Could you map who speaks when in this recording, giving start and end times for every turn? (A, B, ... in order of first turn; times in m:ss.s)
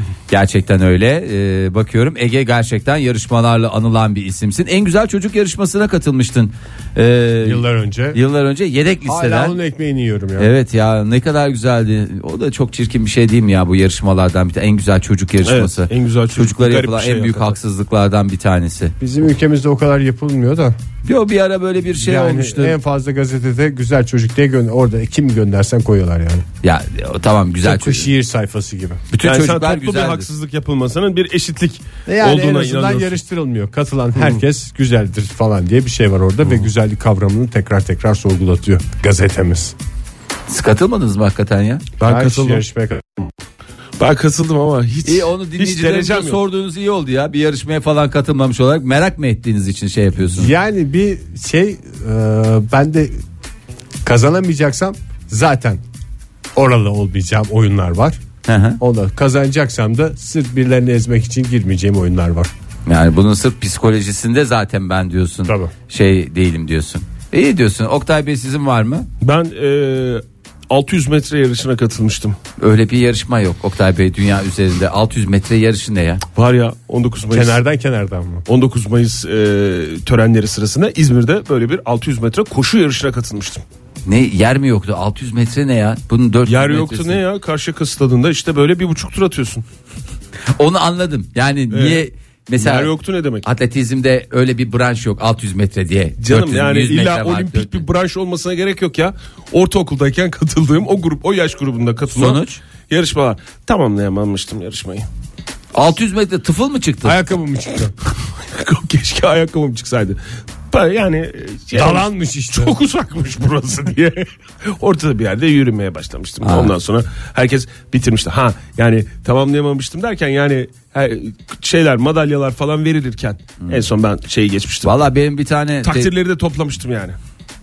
0:00.3-0:09.6 A
0:07.4-0:08.2 B
0:09.1-0:10.5 B
0:10.4-0:18.9 A
0:15.4-0:17.6 C
0:19.0-0:20.8 B
0:21.0-0:22.8 A
0:22.0-0:26.5 B
0:26.6-0:28.1 A
0:27.6-0:29.0 B
0:29.1-0:30.3 A
0:29.2-0:33.2 C
0:32.1-0:39.8 B
0:40.5-0:41.9 A
0:42.0-0:42.6 C
0:42.0-0:43.3 B
0:44.0-0:46.4 C
0:45.0-0:50.5 A
0:50.3-0:53.2 B
0:54.0-0:55.8 B
0:56.6-0:58.2 B
0:58.5-0:58.8 A
0:58.8-1:02.5 B
1:02.9-1:09.1 A
1:05.5-1:05.7 B
1:09.2-1:12.4 C
1:12.6-1:16.2 A
1:16.4-1:17.6 C
1:17.3-1:18.4 B
1:18.5-1:23.6 C
1:24.1-1:27.2 A
1:26.5-1:29.6 C
1:30.6-1:32.9 A
1:31.7-1:32.0 C
1:32.6-1:33.5 C
1:33.4-1:37.8 A
1:36.2-1:45.1 C
1:42.2-1:42.6 A
1:45.7-1:47.2 A
1:47.0-1:47.9 B
1:48.5-1:50.2 C
1:50.7-2:05.0 C
1:51.7-1:52.8 B
1:56.4-1:56.7 A
2:04.8-2:06.1 A
2:05.8-2:07.2 C